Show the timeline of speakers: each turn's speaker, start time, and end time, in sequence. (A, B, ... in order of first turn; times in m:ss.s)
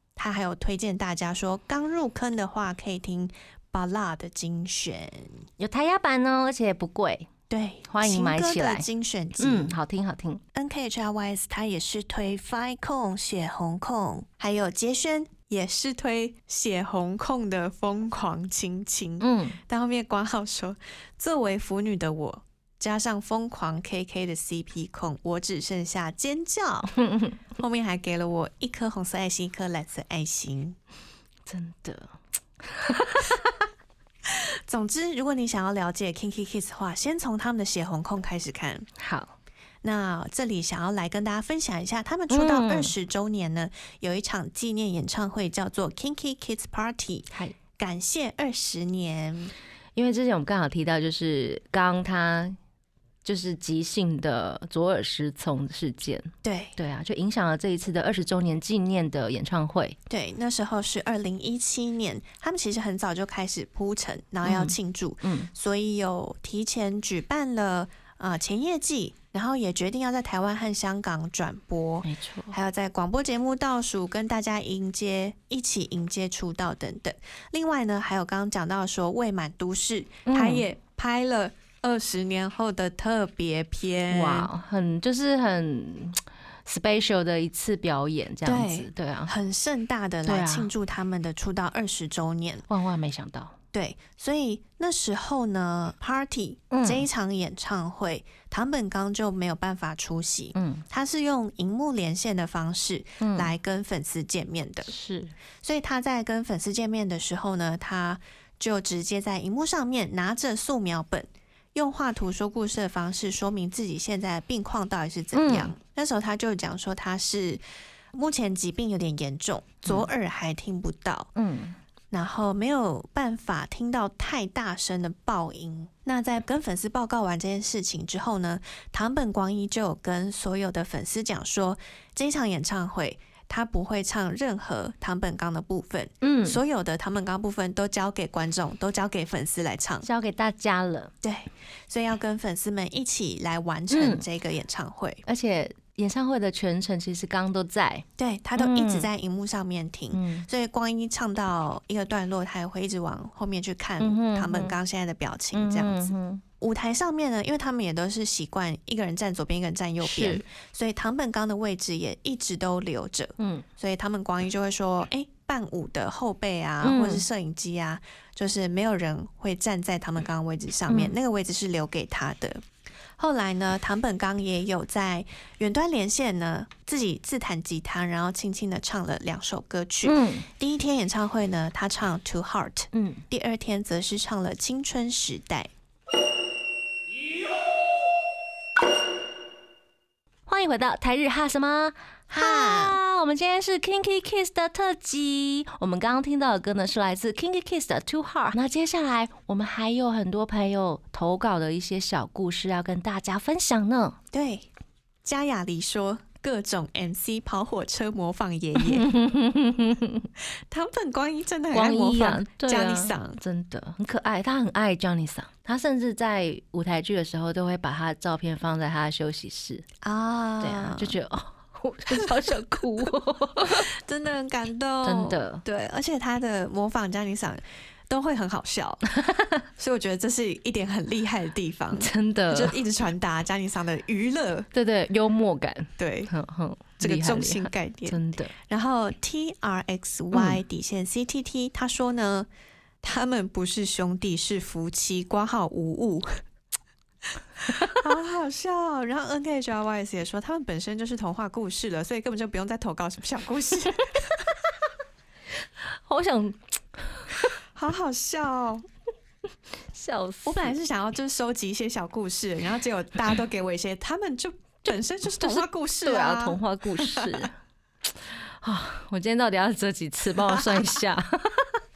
0:00.2-0:05.4 A
0:05.6-0:07.3 B
0:07.5-0:09.7 A
0:07.9-0:08.9 B
0:09.4-0:10.4 B
0:10.5-0:27.0 A
0:19.2-0:19.6 B
0:27.0-0:27.4 B
0:27.6-0:30.8 A
0:31.4-0:33.5 B
0:34.3-0:38.9 A
0:39.0-0:39.3 B
0:39.8-0:49.5 A
0:42.3-0:42.9 B
0:50.0-0:52.6 B
0:53.2-1:00.0 B
0:56.4-0:56.8 A
1:00.1-1:24.5 A
1:04.4-1:05.5 B
1:12.0-1:12.6 B
1:20.3-1:20.6 B
1:24.1-1:29.3 B
1:28.4-1:32.6 A
1:30.3-1:30.7 B
1:32.7-1:33.6 B
1:33.7-1:44.9 A
1:36.7-1:37.0 B
1:40.6-1:40.8 B
1:43.2-1:43.5 B
1:44.9-1:45.3 B
1:45.6-1:57.6 A
1:55.3-1:55.7 B
1:58.1-2:01.3 A
2:01.4-2:01.8 B
2:02.1-2:20.0 A
2:16.2-2:16.6 B
2:20.0-2:21.1 B
2:21.2-2:25.2 A
2:23.9-2:24.2 B
2:25.3-2:28.0 B
2:28.2-2:52.6 A
2:28.6-2:29.1 B
2:30.1-2:30.5 B
2:34.0-2:34.7 B
2:35.5-2:36.4 B
2:40.0-2:40.4 B
2:43.4-2:43.6 B
2:46.8-2:47.2 B
2:53.2-3:05.7 A
3:00.0-3:00.5 B
3:02.9-3:03.2 B
3:10.5-3:24.2 B
3:12.3-3:13.0 A
3:24.3-3:24.7 A
3:25.2-3:29.1 A
3:28.8-3:30.3 B
3:30.7-3:33.4 A
3:31.7-3:39.9 B
3:40.0-3:41.2 A
3:40.6-3:43.9 B
3:43.6-3:49.0 A
3:45.0-3:45.6 B
3:49.2-3:49.5 B
3:49.8-3:54.7 A
3:52.0-3:52.8 B
3:54.7-3:58.5 B
3:56.0-3:56.3 A
3:57.0-4:02.5 A
4:00.3-4:00.6 B
4:03.0-4:06.4 A
4:07.6-4:14.5 A
4:16.1-4:16.6 B
4:17.7-4:18.8 A
4:19.9-4:20.7 B
4:20.4-4:27.5 A
4:25.4-4:27.5 B
4:28.6-4:31.8 B
4:30.4-4:30.9 A